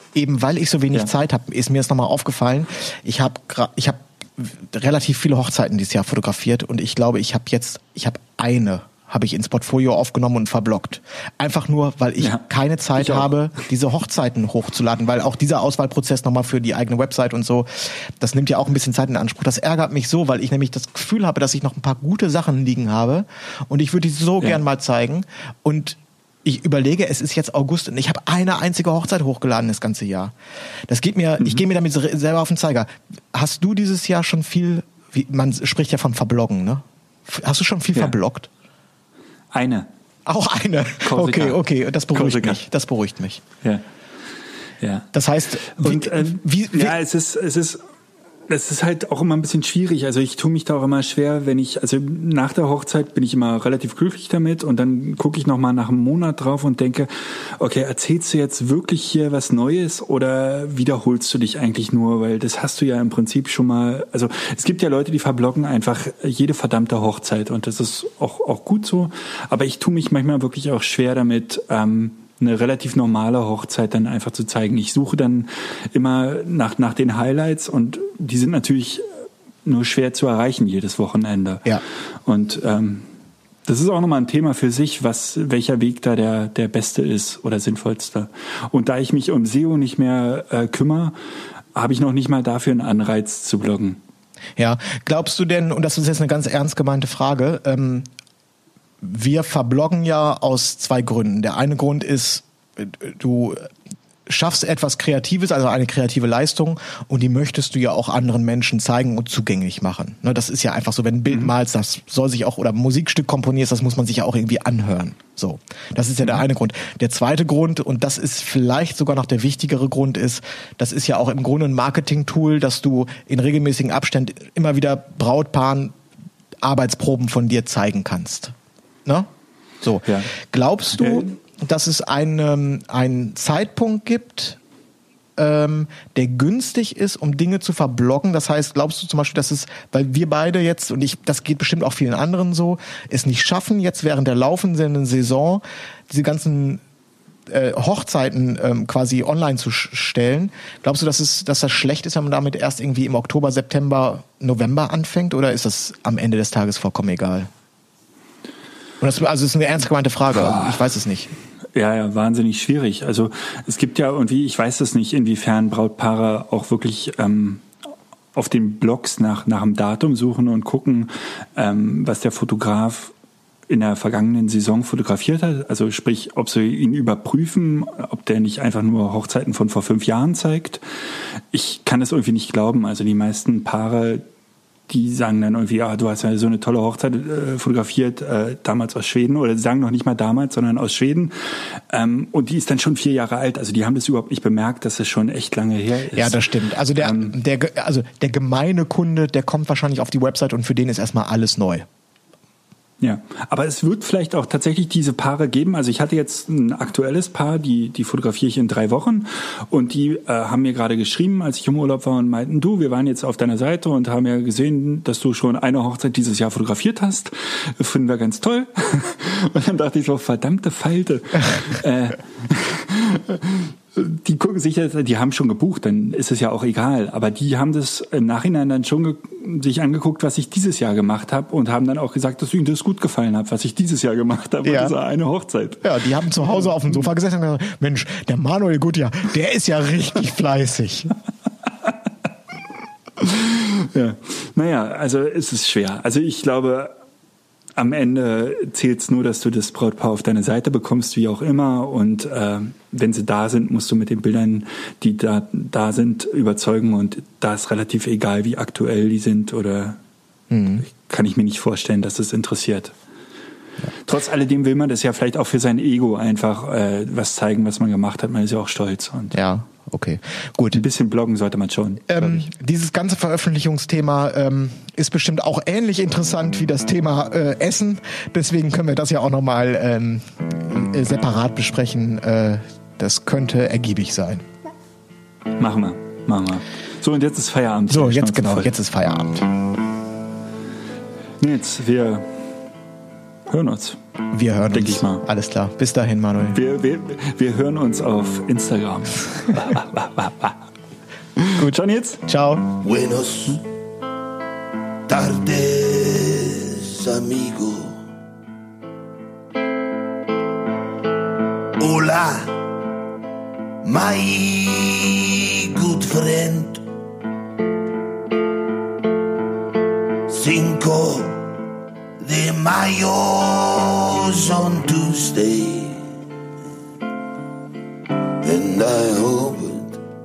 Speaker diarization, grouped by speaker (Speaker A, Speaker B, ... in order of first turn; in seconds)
Speaker A: 0.1-30.3, 30.9-38.5, 40.3-43.4, 45.1-47.0, 94.6-98.1, 99.0-103.7, 104.3-126.0, 126.6-128.5, 129.8-134.6, 135.4-146.8, 147.5-157.5, 159.0-161.3, 196.1-201.9, 234.6-234.9, 235.8-241.1, 260.5-260.8, 269.3-270.8, 272.1-284.5, 287.9-289.5, 294.3-296.6, 301.6-302.7
Speaker B: 13.0-13.3, 39.5-39.9, 41.0-41.6, 42.1-42.6, 44.8-45.1, 45.7-47.8, 48.5-79.1, 79.6-81.7, 82.2-83.1, 83.7-91.2, 91.8-94.0, 130.1-130.3, 131.0-131.4, 160.3-160.8, 161.7-167.7, 168.3-173.1, 173.7-180.8, 181.5-184.2, 184.9-197.3, 203.0-235.8, 243.2-246.9, 247.8-260.0, 260.8-262.9, 264.0-269.4, 270.7-272.4, 285.6-288.7, 291.4-292.4, 293.5-294.0, 294.7-295.2, 296.5-300.6, 301.4-302.2
Speaker C: 302.8-303.6, 305.1-308.0, 311.8-312.6, 313.8-316.8, 320.3-321.5, 322.2-326.0, 328.4-330.0